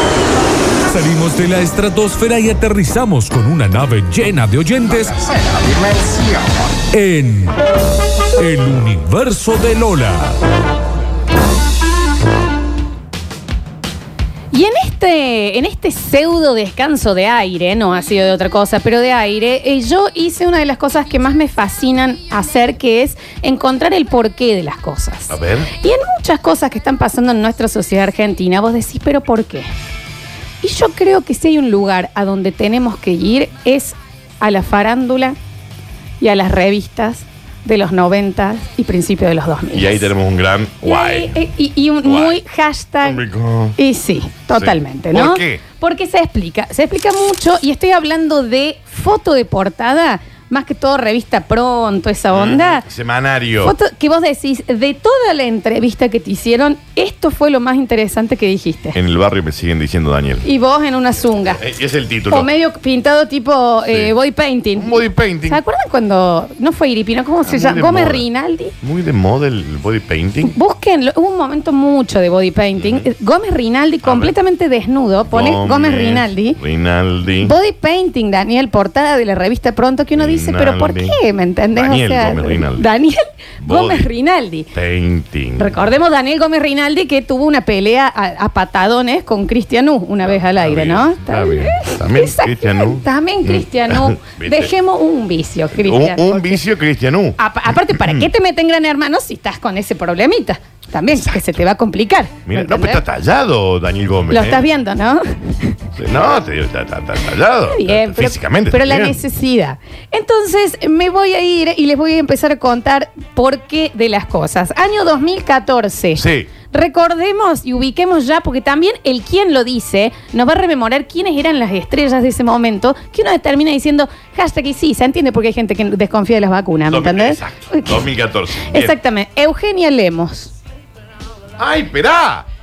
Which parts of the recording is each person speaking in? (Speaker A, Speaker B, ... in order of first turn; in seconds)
Speaker A: 0.9-5.4, 6.9-7.5, 8.4-10.3
Speaker B: 14.5-29.7, 30.6-35.4, 36.2-40.1, 40.8-43.2, 43.8-52.8, 53.6-59.0, 60.4-61.6, 62.3-68.7, 70.5-76.6, 77.4-84.7, 85.6-96.6, 97.4-103.0, 104.3-105.8, 107.7-128.1, 128.7-130.5
Speaker C: 25.3-25.7, 39.7-41.3, 42.0-42.4, 43.0-43.8, 44.5-45.6, 52.3-53.7, 58.9-60.5, 61.5-62.5, 64.8-65.6, 67.4-68.2, 68.8-70.5, 72.8-73.1, 74.0-74.3, 75.3-77.5, 80.1-81.2, 81.7-82.8, 83.6-84.0, 84.7-85.8, 90.3-94.7, 95.7-98.3, 101.1-101.4, 102.5-104.6, 106.0-109.2, 116.2-116.5, 126.9-128.9, 131.6-132.4